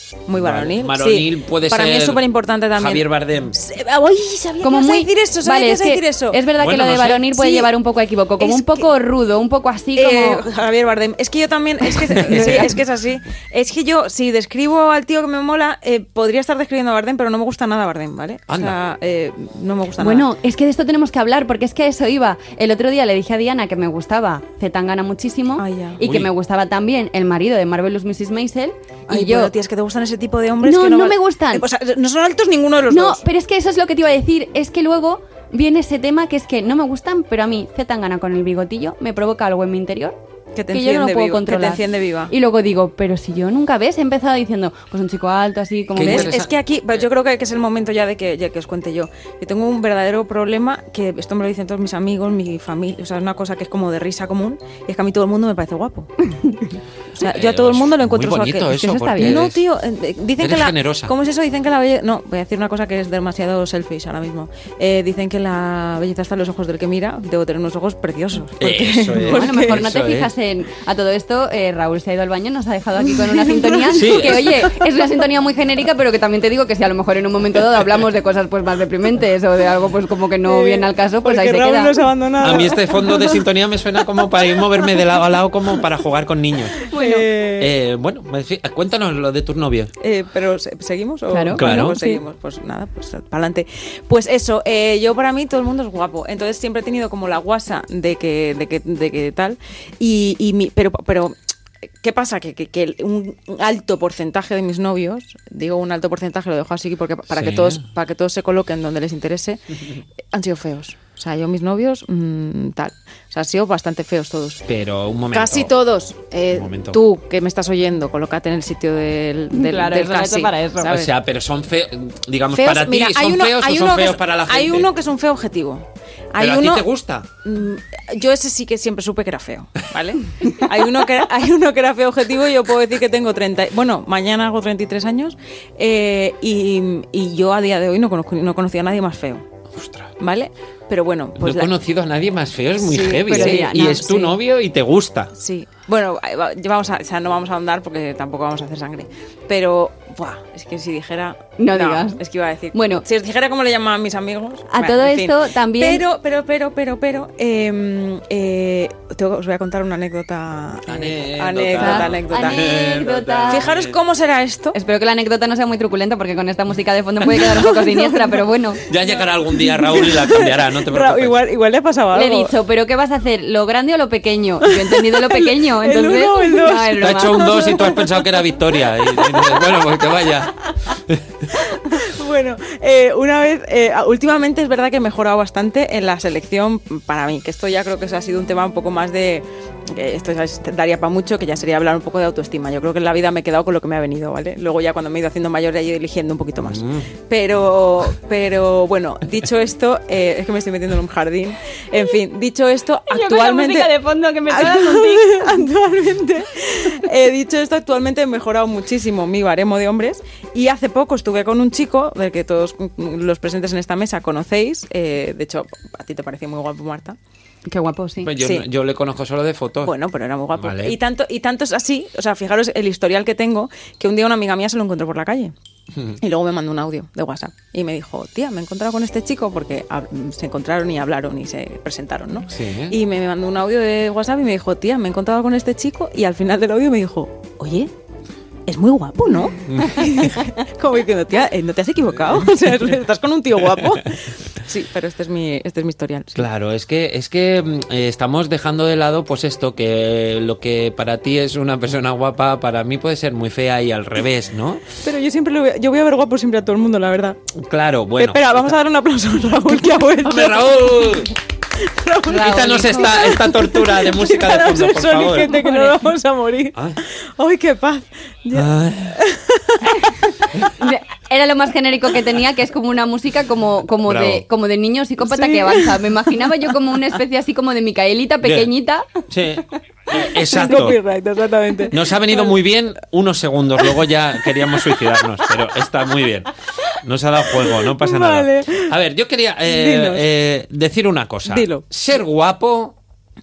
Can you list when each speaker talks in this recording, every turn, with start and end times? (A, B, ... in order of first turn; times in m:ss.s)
0:00.3-0:06.4 A
0:00.4-0:02.2 B
0:02.8-0:03.6 B
0:04.6-0:10.4 C
0:06.6-0:07.2 B
0:07.3-0:07.7 A
0:08.4-0:08.9 A
0:10.0-0:20.3 A
0:12.2-0:12.7 B
0:12.3-0:12.7 C
0:18.5-0:18.8 B
0:20.0-0:29.5 C
0:25.6-0:26.0 A
0:26.0-0:26.3 B
0:29.1-0:33.2 A
0:30.6-0:31.7 C
0:32.9-0:40.2 C
0:40.6-0:42.3 A
0:40.7-0:46.3 C
0:46.0-0:46.5 B
0:46.0-0:56.1 A
0:57.2-1:09.8 A
0:57.2-0:59.6 B
0:58.8-0:59.4 C
1:00.4-1:01.1 B
1:08.6-1:10.3 B
1:09.2-1:22.1 C
1:13.3-1:14.8 A
1:13.9-1:14.6 B
1:20.4-1:23.4 A
1:22.4-1:26.8 B
1:26.8-1:27.7 A
1:26.9-1:27.3 C
1:27.6-1:29.9 B
1:30.0-1:41.4 A
1:31.3-1:32.2 C
1:31.6-1:32.0 B
1:42.0-1:54.6 A
1:47.3-1:47.8 B
1:54.7-1:55.7 B
1:55.3-2:01.1 A
1:56.5-1:57.0 B
1:59.5-2:01.0 C
2:00.8-2:04.9 B
2:02.6-2:06.9 A
2:06.4-2:07.3 B
2:07.4-2:19.4 A
2:19.8-2:20.1 B
2:20.2-2:21.7 A
2:21.4-2:25.3 B
2:22.8-2:24.2 A
2:23.3-2:24.4 C
2:25.4-2:42.7 A
2:31.6-2:32.2 C
2:32.7-2:33.0 C
2:34.7-2:36.0 C
2:40.9-2:44.0 B
2:41.8-2:43.7 C
2:43.5-2:44.8 A
2:44.7-2:48.8 C
2:47.4-2:48.5 A
2:48.9-2:51.4 B
2:49.0-2:52.5 A
2:52.1-2:57.8 C
2:54.6-2:58.4 A
2:57.0-3:01.2 B
2:59.0-3:00.0 A
3:01.5-3:24.0 A
3:16.6-3:17.1 B
3:23.1-3:25.7 C
3:24.5-3:37.2 A
3:37.7-3:38.3 C
3:38.2-3:39.9 B
3:39.8-3:45.5 A
3:40.6-3:41.0 B
3:46.2-3:57.9 A
3:52.5-3:53.0 B
3:58.7-4:06.4 A
3:59.6-4:00.4 B
4:06.4-4:14.8 B
4:15.0-4:17.4 A
4:17.5-4:18.7 B
4:18.2-4:21.3 A
4:20.2-4:21.3 B
4:21.8-4:30.4 A
4:22.3-4:25.5 B
4:22.3-4:23.2 C
4:25.5-4:26.1 C
4:28.5-4:29.2 B
4:30.8-4:39.1 C
4:34.0-4:34.4 B
4:35.2-4:36.1 A
4:38.4-4:38.7 B
4:39.3-4:41.0 B
4:40.5-4:42.5 A
4:41.9-4:46.5 B
4:44.7-4:45.5 A
4:47.0-4:53.0 B
4:47.5-4:48.9 A
4:49.7-4:50.2 A
4:51.5-4:51.8 A